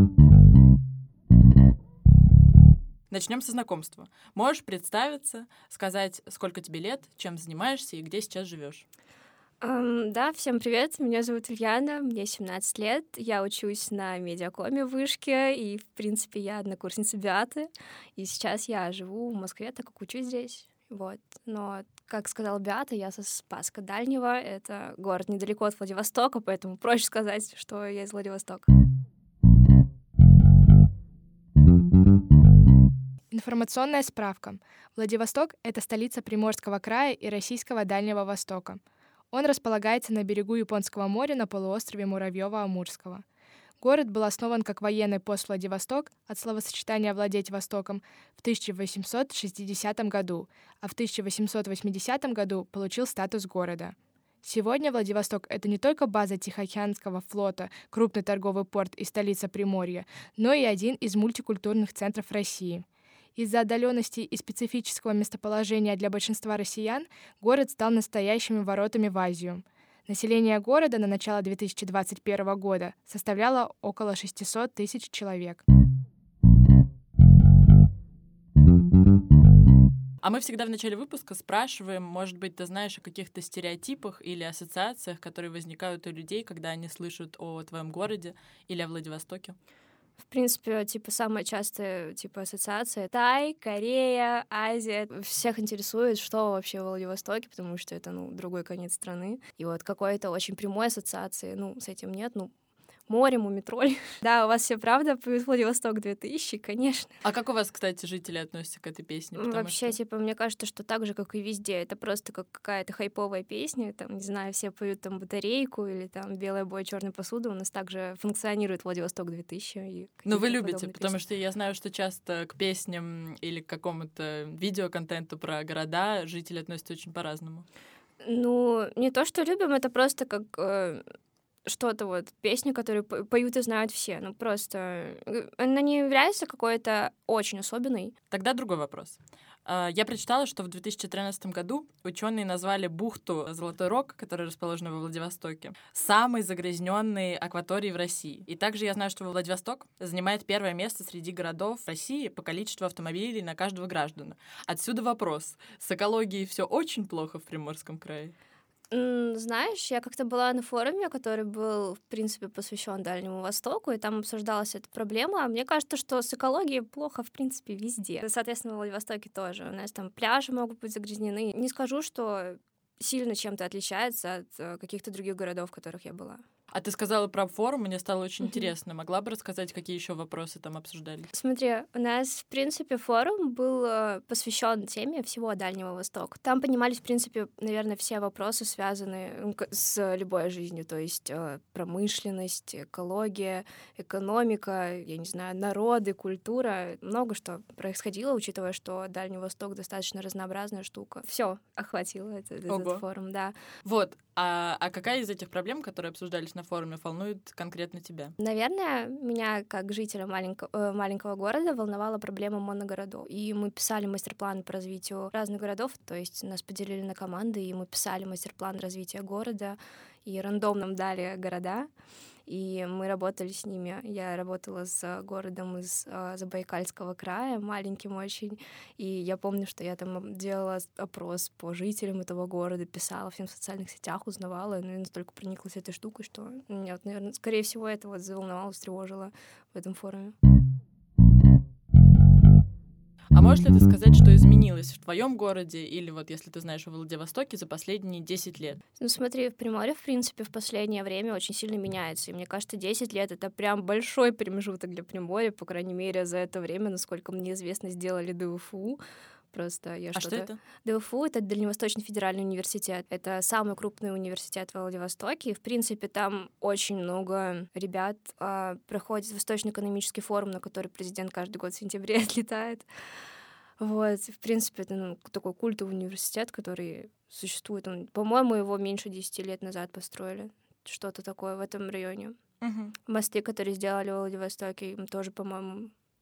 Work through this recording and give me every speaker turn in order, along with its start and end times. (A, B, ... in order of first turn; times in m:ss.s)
0:03.1-0:08.9 A
0:09.6-0:28.7 B
0:33.3-0:38.8 C
0:39.3-0:43.2 C
0:43.8-1:15.6 C
1:20.2-1:29.6 A
1:30.2-1:42.5 B
1:43.1-1:47.2 B
1:47.2-1:50.0 A
1:49.4-2:01.2 B
2:00.3-2:07.6 A
2:08.2-2:11.0 B
2:11.7-2:18.1 B
2:18.3-2:38.3 A
2:38.9-2:56.4 B
2:56.7-3:01.3 A
3:01.3-3:23.5 B
3:22.7-3:23.0 A
3:23.8-3:28.3 A
3:28.4-3:41.9 B
3:42.5-4:00.4 B
4:03.3-4:08.8 A
4:09.0-4:19.0 B
4:19.5-4:32.9 B
4:20.2-4:20.6 A
4:33.8-4:42.4 B
4:42.6-4:43.0 A
4:43.1-4:45.9 B